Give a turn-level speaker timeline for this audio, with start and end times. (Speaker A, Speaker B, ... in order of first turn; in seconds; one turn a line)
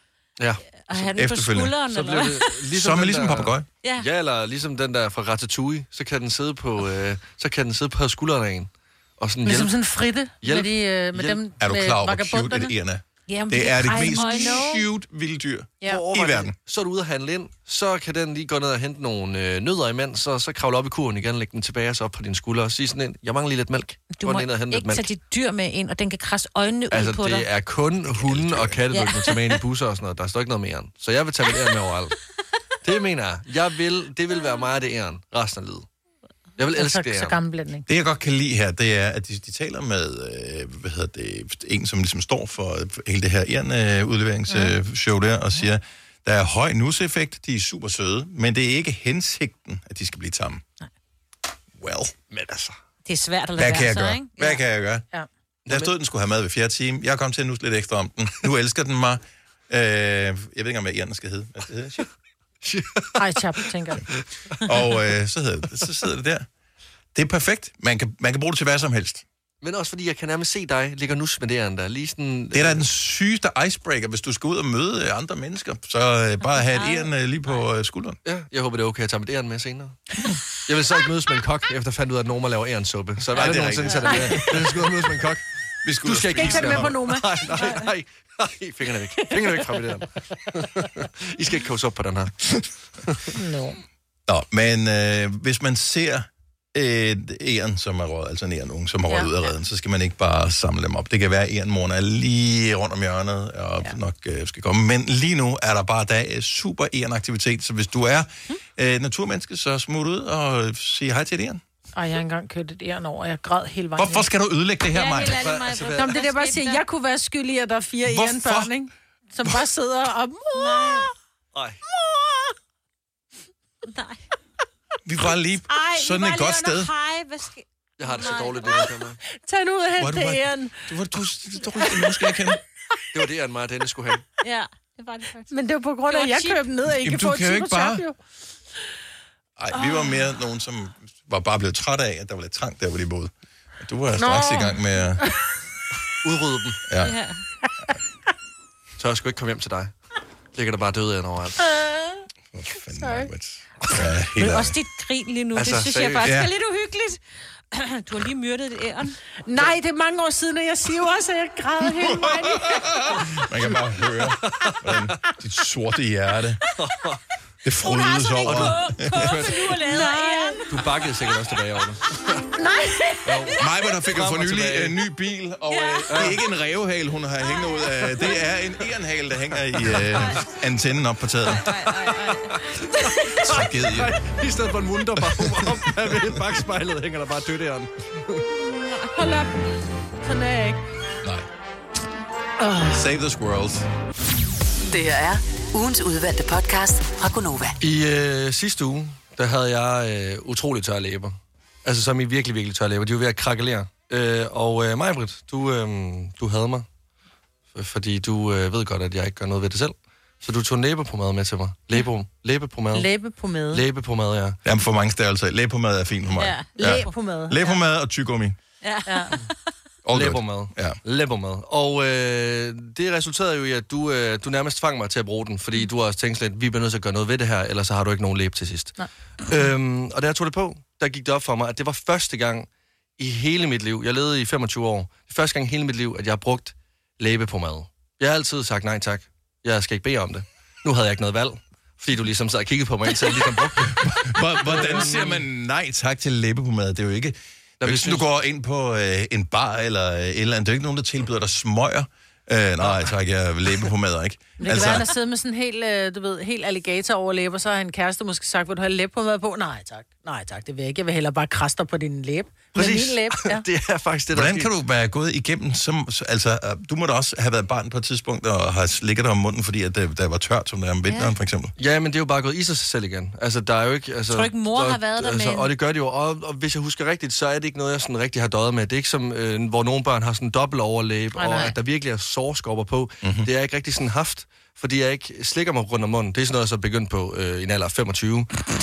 Speaker A: 0.4-0.7
Speaker B: 0.8-2.5
Speaker C: 0.9-1.8
Speaker A: 1.9-9.8
Speaker C: 2.7-3.6
Speaker B: 3.8-4.1
Speaker D: 9.4-12.7
Speaker A: 10.4-11.4
Speaker C: 11.6-16.5
Speaker B: 13.3-14.8
Speaker D: 13.8-14.8
Speaker A: 15.8-25.1
Speaker B: 24.1-27.5
Speaker A: 26.9-32.2
Speaker C: 28.1-28.8
Speaker B: 28.9-29.4
Speaker A: 32.8-35.9
Speaker A: 36.6-37.4
Speaker D: 36.8-37.8
Speaker C: 37.9-50.6
Speaker C: 51.8-52.1
Speaker A: 52.3-52.7
Speaker B: 53.0-54.6
Speaker C: 53.6-55.0
Speaker C: 55.7-62.0
Speaker A: 62.6-63.2
Speaker D: 63.2-64.0
Speaker C: 64.6-66.5
Speaker C: 67.1-69.2
Speaker A: 69.6-72.8
Speaker C: 72.5-78.2
Speaker B: 76.6-77.1
Speaker A: 78.2-80.0
Speaker A: 80.6-85.4
Speaker C: 83.3-84.6
Speaker C: 85.8-86.9
Speaker A: 86.0-93.2
Speaker D: 86.3-87.8
Speaker D: 93.3-93.8
Speaker C: 94.3-111.6
Speaker D: 111.9-114.2
Speaker C: 114.0-115.5
Speaker B: 114.9-116.8
Speaker A: 115.2-116.2
Speaker D: 116.0-121.1
Speaker C: 118.0-118.7
Speaker B: 120.5-121.1
Speaker A: 121.5-121.8
Speaker B: 123.8-124.2
Speaker C: 125.0-126.9
Speaker B: 125.7-128.9
Speaker A: 128.0-129.2
Speaker D: 129.4-130.8
Speaker C: 130.0-132.6
Speaker A: 133.1-134.2
Speaker B: 134.4-135.5
Speaker D: 135.5-138.2
Speaker B: 136.1-136.6
Speaker C: 136.9-138.0
Speaker C: 139.6-145.2
Speaker D: 144.2-144.8
Speaker A: 146.2-146.8
Speaker C: 146.9-147.2
Speaker B: 147.0-147.4
Speaker A: 149.0-149.9
Speaker A: 150.5-151.6
Speaker C: 152.5-154.8
Speaker D: 153.0-153.3
Speaker B: 154.4-157.2
Speaker A: 155.5-156.4
Speaker C: 156.2-156.5
Speaker B: 157.7-159.2
Speaker D: 159.4-163.1
Speaker C: 162.0-166.6
Speaker A: 164.4-165.1
Speaker A: 166.8-167.2
Speaker C: 167.6-169.4
Speaker B: 167.8-170.8
Speaker A: 168.4-169.8
Speaker D: 169.7-170.6
Speaker A: 170.7-172.4
Speaker D: 172.6-173.2
Speaker B: 172.8-173.4
Speaker A: 173.2-173.6
Speaker C: 173.6-181.7
Speaker A: 174.1-175.0
Speaker B: 175.7-176.1
Speaker A: 176.1-176.4
Speaker A: 179.8-180.4
Speaker B: 181.5-183.2
Speaker A: 181.6-188.4
Speaker C: 183.4-184.1
Speaker C: 185.2-186.2
Speaker B: 188.7-189.4
Speaker D: 189.1-189.5
Speaker D: 190.2-190.8
Speaker C: 191.2-191.5
Speaker D: 192.6-193.0
Speaker C: 192.9-193.9
Speaker E: 194.9-197.7
Speaker A: 197.8-206.8
Speaker A: 207.7-213.1
Speaker D: 212.9-213.8
Speaker A: 213.7-214.6
Speaker C: 214.6-218.6
Speaker B: 216.3-217.1
Speaker D: 216.8-217.8
Speaker B: 218.8-219.5
Speaker D: 219.1-219.3
Speaker C: 220.0-221.0
Speaker A: 220.1-245.4
Speaker C: 243.8-255.1
Speaker A: 247.8-248.3
Speaker A: 252.8-253.1
Speaker D: 254.6-263.6
Speaker A: 262.7-264.7
Speaker C: 264.3-271.7
Speaker A: 271.8-288.5
Speaker B: 274.3-275.7
Speaker D: 281.4-281.7
Speaker C: 283.2-283.5